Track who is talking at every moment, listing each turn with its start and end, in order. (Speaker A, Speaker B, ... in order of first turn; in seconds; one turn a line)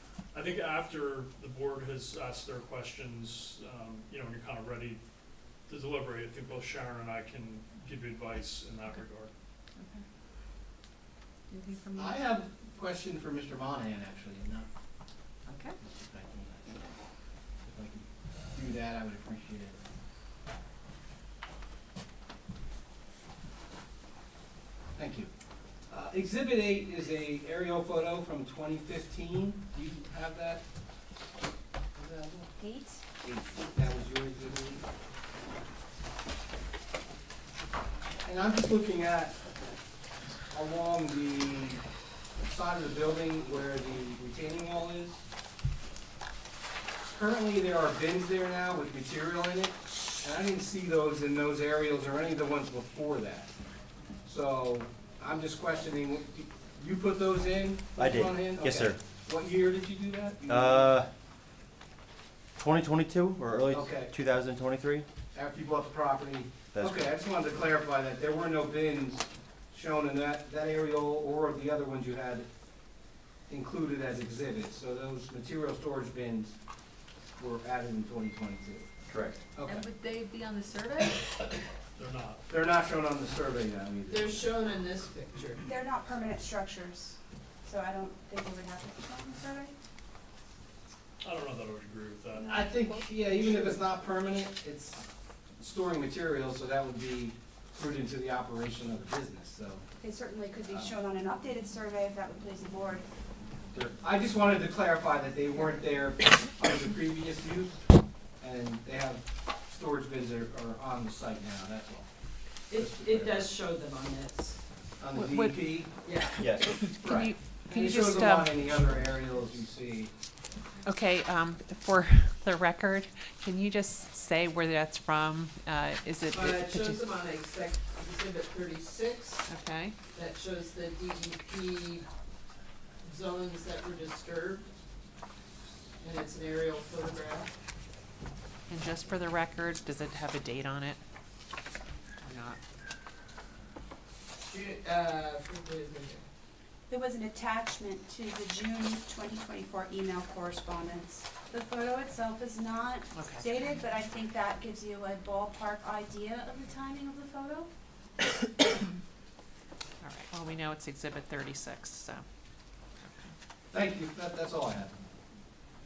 Speaker A: 0.3-5.0
Speaker A: 5.7-9.3
Speaker B: 9.8-10.0
Speaker B: 11.5-12.2
Speaker C: 12.0-14.7
Speaker B: 15.5-15.8
Speaker C: 15.8-16.8
Speaker C: 17.6-19.8
Speaker C: 25.0-25.3
Speaker C: 25.9-30.6
Speaker C: 31.9-32.5
Speaker D: 32.6-33.2
Speaker C: 33.2-34.8
Speaker C: 38.2-39.4
Speaker C: 40.5-41.8
Speaker C: 42.4-45.2
Speaker C: 47.1-53.5
Speaker C: 54.2-61.0
Speaker E: 58.0-59.0
Speaker E: 60.5-61.1
Speaker E: 62.6-65.1
Speaker C: 63.6-64.1
Speaker C: 65.3-72.5
Speaker E: 66.7-67.0
Speaker C: 73.5-76.5
Speaker C: 77.4-78.9
Speaker E: 79.1-79.4
Speaker C: 79.5-79.9
Speaker B: 79.7-81.2
Speaker A: 82.0-82.5
Speaker C: 82.5-84.5
Speaker F: 84.1-85.6
Speaker D: 85.7-89.8
Speaker A: 91.2-92.7
Speaker C: 92.4-95.1
Speaker C: 95.6-99.8
Speaker D: 100.0-103.0
Speaker C: 100.7-101.0
Speaker C: 103.7-107.8
Speaker C: 108.4-112.1
Speaker F: 112.7-114.6
Speaker C: 112.8-113.5
Speaker C: 115.0-115.9
Speaker B: 115.2-115.6
Speaker F: 116.0-116.4
Speaker E: 116.4-116.9
Speaker C: 116.7-120.1
Speaker G: 117.0-119.2
Speaker G: 120.8-127.0
Speaker F: 126.3-129.5
Speaker G: 129.5-130.0
Speaker F: 130.1-132.1
Speaker F: 133.0-134.7
Speaker F: 136.0-137.5
Speaker G: 138.7-141.0
Speaker G: 142.2-142.6
Speaker F: 144.4-146.2
Speaker D: 146.9-157.7
Speaker G: 153.1-153.5
Speaker G: 160.0-162.2
Speaker G: 163.0-163.3
Speaker C: 163.7-164.9